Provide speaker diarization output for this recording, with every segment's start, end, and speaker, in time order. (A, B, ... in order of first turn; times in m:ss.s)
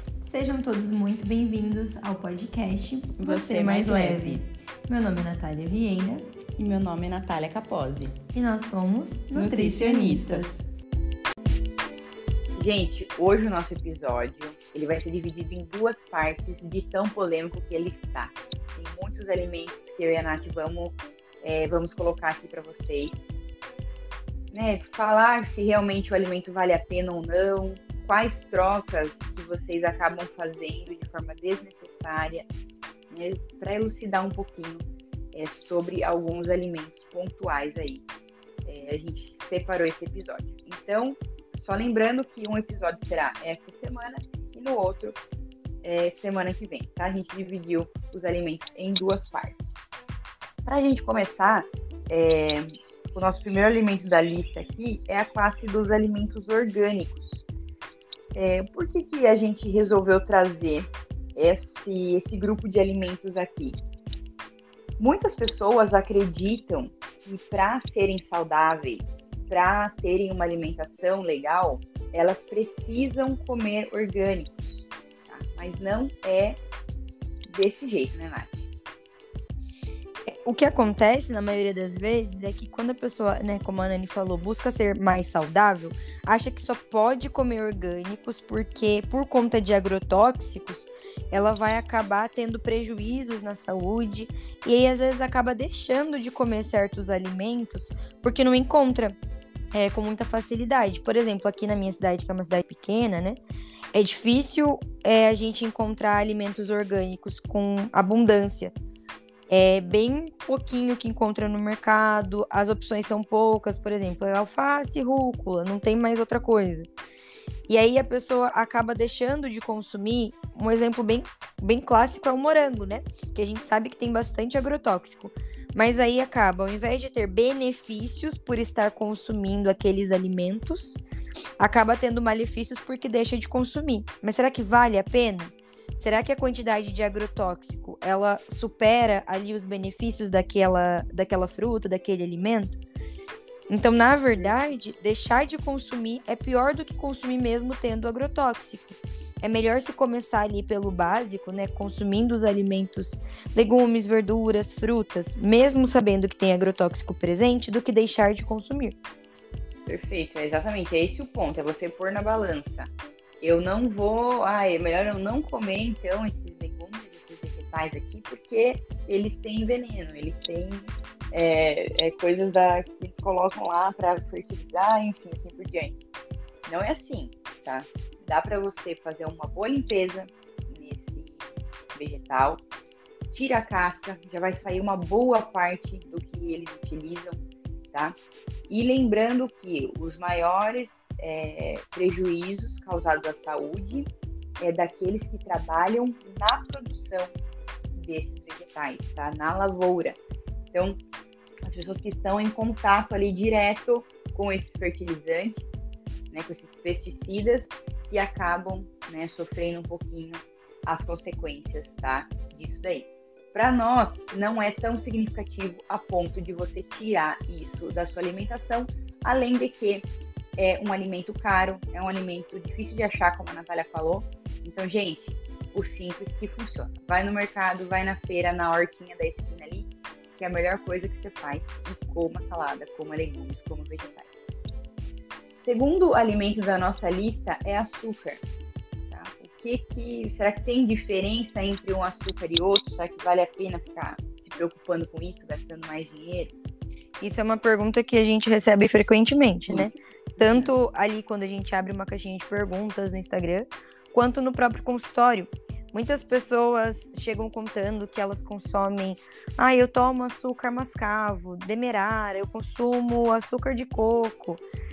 0:00.2-0:06.2 A
0:03.2-0:04.4 B
0:06.6-0:08.1 B
0:06.9-0:08.0 C
0:08.3-0:10.6 A
0:09.3-0:10.5 B
0:09.8-0:10.0 C
0:12.6-0:23.2 C
0:24.5-0:32.5 C
0:33.1-0:38.0 C
0:38.6-0:45.2 C
0:45.8-0:49.6 C
0:50.6-0:57.4 C
0:58.3-1:03.8 C
1:05.0-1:14.5 C
1:15.3-1:16.6 C
1:17.4-1:18.6 C
1:20.3-1:39.2 A
1:39.7-1:43.4 A
1:43.9-1:48.7 A
1:49.5-1:56.9 A
1:57.7-2:11.0 A
2:11.6-2:22.8 A
2:23.7-2:39.0 A
2:24.3-2:24.6 C
2:39.8-2:56.0 C
2:56.6-3:02.6 C
3:03.3-3:07.4 C
3:07.9-3:08.2 C
3:08.7-3:14.1 C
3:14.6-3:17.3 C
3:17.9-3:20.2 C
3:20.7-3:21.0 C
3:21.6-3:25.6 C
3:26.3-3:54.3 C
3:55.6-3:58.4 C
3:59.1-4:06.5 C
4:07.2-4:24.6 A
4:09.7-4:10.7 C